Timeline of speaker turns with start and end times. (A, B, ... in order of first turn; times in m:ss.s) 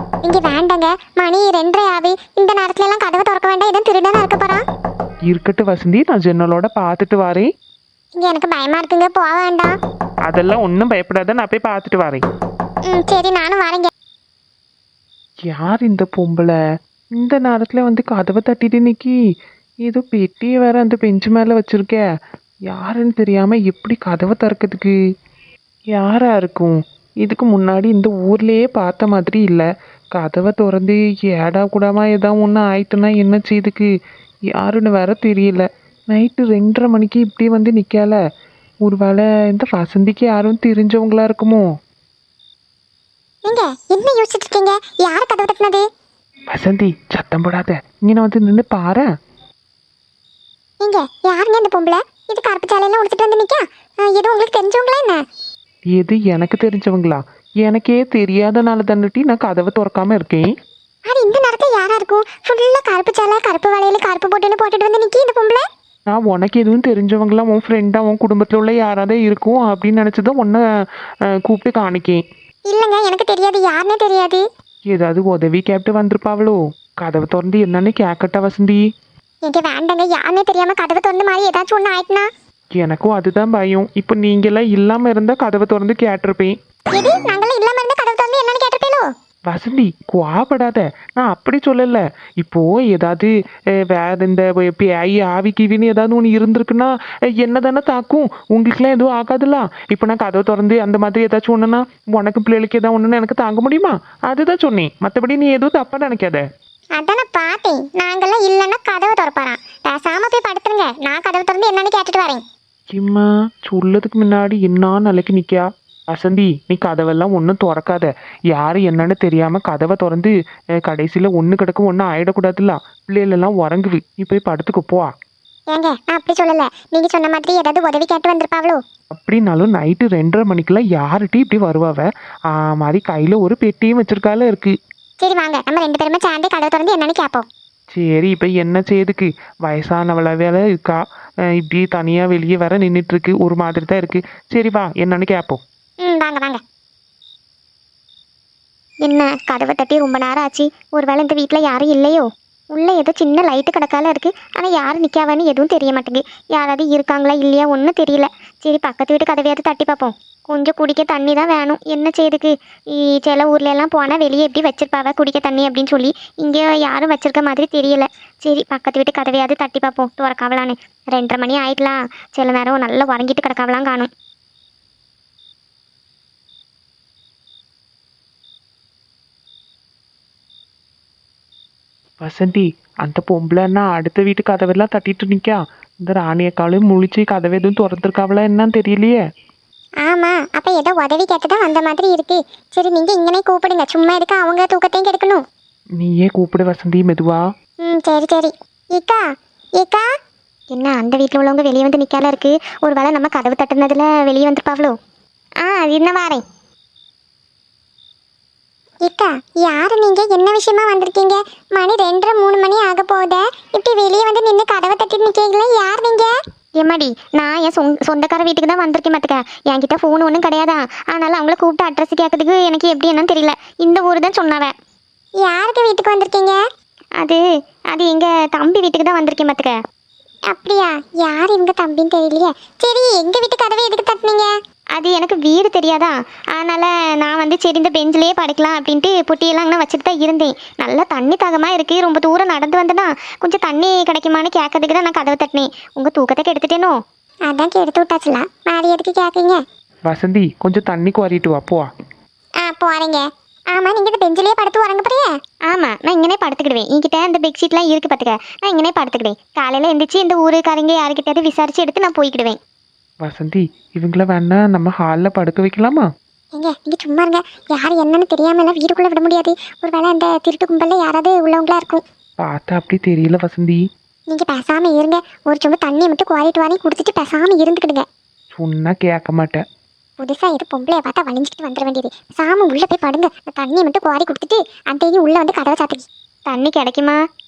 0:00.2-0:04.6 A
0:05.3-0:07.5 B
0:08.2-0:09.8 A
0:10.3-0:12.2 B
0:12.9-0:13.9 A
0:15.5-0:16.5 B
0:17.2-0:19.2 B
0:19.8-0:22.0 B
0:22.7-0:24.9 B
0:25.9-0:33.9 B
0:34.6-0:38.2 B
0:38.8-0:41.7 B
0:43.4-0:45.8 A
0:46.5-0:49.1 B
0:50.8-0:55.2 A
0:55.9-1:00.5 B
1:01.1-1:05.6 A
1:06.1-1:10.6 B
1:11.4-1:12.2 B
1:12.7-1:14.4 A
1:14.9-1:18.8 B
1:19.4-1:22.3 A
1:22.8-1:26.5 B
1:26.9-1:29.1 A
1:29.5-1:33.3 B
1:33.9-1:46.4 B
1:47.0-1:52.4 A
1:52.9-2:00.3 B
2:00.8-2:05.1 B
2:05.7-2:08.8 A
2:09.2-2:14.7 B
2:15.2-2:17.5 A
2:17.9-2:21.0 B
2:21.5-2:25.6 B
2:26.0-2:26.6 A
2:29.0-2:54.1 C
3:02.2-3:09.2 B
3:10.0-3:15.4 A
3:16.0-3:17.4 B
3:17.8-3:19.2 A
3:19.8-3:20.0 A
3:20.7-3:24.9 C
3:25.6-3:26.4 C
3:29.0-3:36.3 A
3:36.8-3:44.7 C
3:45.4-3:46.6 A
3:47.2-3:49.7 C
3:50.5-3:54.5 A
3:54.9-4:07.0 C
4:07.5-4:09.6 A
4:10.1-4:11.9 B
4:12.6-4:15.3 A
4:15.7-4:22.6 C
4:23.2-4:26.0 B
4:26.5-4:32.0 A
4:32.4-4:33.8 B
4:34.3-4:38.0 A
4:38.5-4:39.6 B
4:40.2-4:46.1 A
4:46.5-4:47.2 C